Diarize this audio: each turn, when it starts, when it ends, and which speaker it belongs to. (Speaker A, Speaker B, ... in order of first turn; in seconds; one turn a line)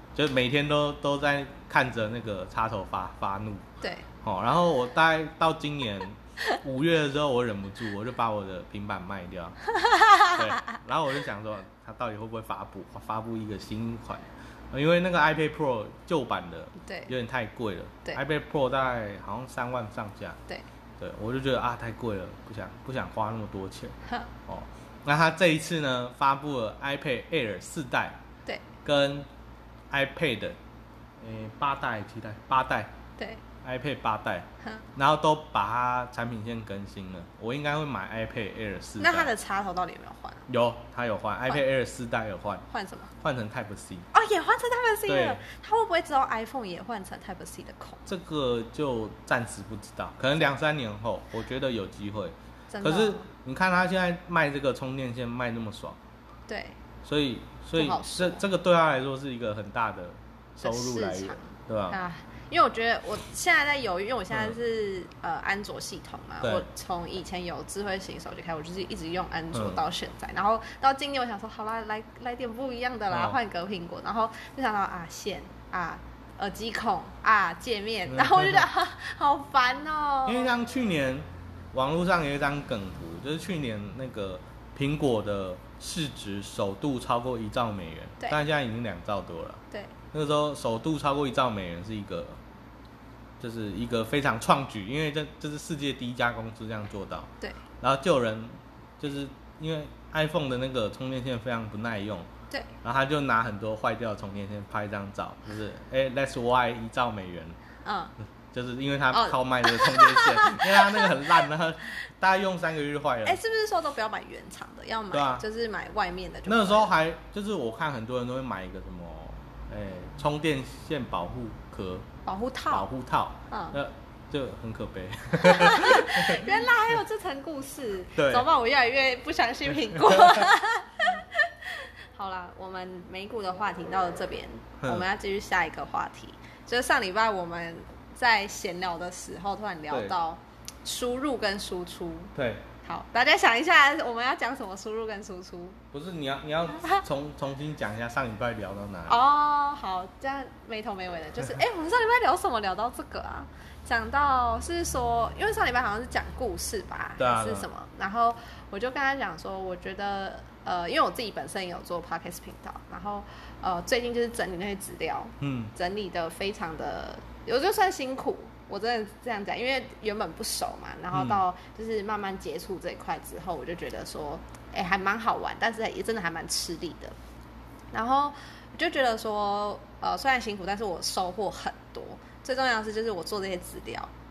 Speaker A: 0.1-3.7
Speaker A: 4.2-9.6
Speaker B: 9.7-10.5
Speaker A: 10.2-20.4
Speaker B: 16.8-17.1
Speaker A: 21.0-24.0
Speaker B: 24.0-24.3
Speaker A: 24.5-28.2
Speaker A: 28.8-29.3
Speaker A: 29.9-30.6
Speaker A: 31.2-32.9
Speaker B: 33.2-33.4
Speaker A: 33.6-39.3
Speaker B: 39.0-40.5
Speaker A: 40.5-42.6
Speaker B: 42.7-43.1
Speaker A: 43.2-44.1
Speaker B: 44.1-48.1
Speaker A: 45.0-45.4
Speaker A: 48.0-56.0
Speaker B: 52.7-53.2
Speaker B: 56.5-56.8
Speaker A: 57.0-62.0
Speaker B: 57.8-58.4
Speaker B: 60.6-80.5
Speaker A: 69.5-69.8
Speaker A: 73.1-73.4
Speaker A: 78.1-78.7
Speaker A: 80.2-92.4
Speaker A: 93.4-102.3
Speaker A: 102.8-107.6
Speaker B: 107.8-108.1
Speaker A: 108.5-113.4
Speaker B: 109.1-111.4
Speaker B: 113.2-116.9
Speaker A: 115.1-115.4
Speaker A: 116.5-122.1
Speaker B: 122.2-122.9
Speaker A: 122.7-127.0
Speaker B: 123.5-123.8
Speaker B: 125.4-142.3
Speaker A: 128.2-128.5
Speaker A: 129.9-130.5
Speaker A: 134.8-135.1
Speaker A: 139.9-140.2
Speaker A: 142.3-142.7
Speaker B: 142.8-145.8
Speaker A: 145.9-149.2
Speaker B: 149.1-177.2
Speaker A: 157.2-157.7
Speaker A: 165.4-165.7
Speaker A: 171.1-171.4
Speaker B: 177.9-184.1